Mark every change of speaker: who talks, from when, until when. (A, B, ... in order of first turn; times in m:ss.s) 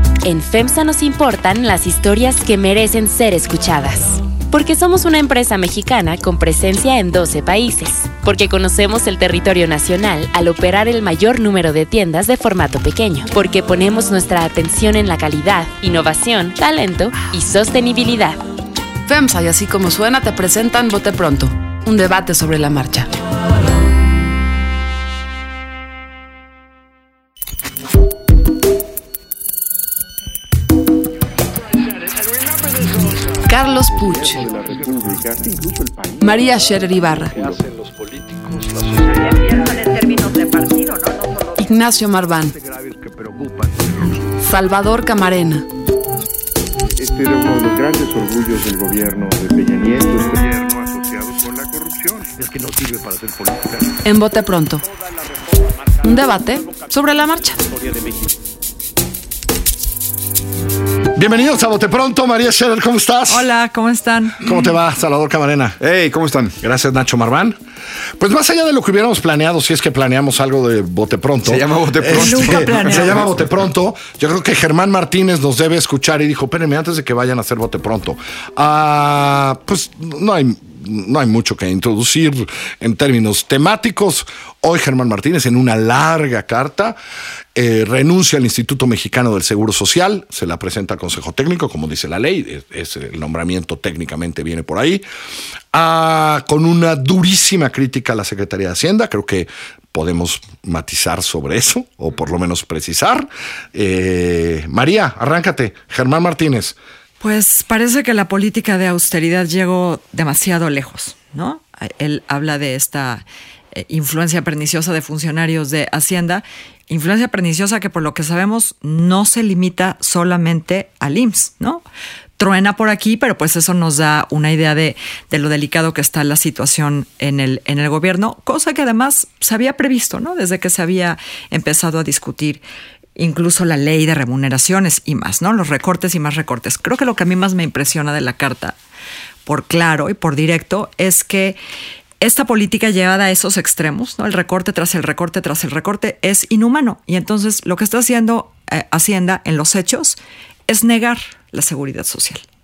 0:00.2-0:18.4 A
0:19.1-0:23.1 B
0:33.4-0:34.5 B
0:33.8-0:37.6 C
0:36.2-0:37.3 B
0:37.3-0:39.2 D
0:41.6-0:42.6 B
0:44.4-0:45.6 B
0:47.0-0:52.2 C
0:53.1-0:53.7 D
0:54.0-0:54.8 B
0:56.0-0:57.6 B
1:01.2-1:03.5 D
1:03.3-1:04.4 E
1:04.4-1:05.8 D
1:05.8-1:06.6 F
1:06.6-1:07.6 D
1:08.2-1:27.0 D
1:11.4-1:13.3 F
1:12.1-1:13.3 E
1:27.6-1:35.0 D
1:35.7-1:46.8 D
1:47.2-1:53.2 E
1:53.8-2:01.8 E
2:02.4-2:12.6 E
2:13.2-2:18.8 E
2:19.5-2:21.6 E
2:22.2-2:32.4 E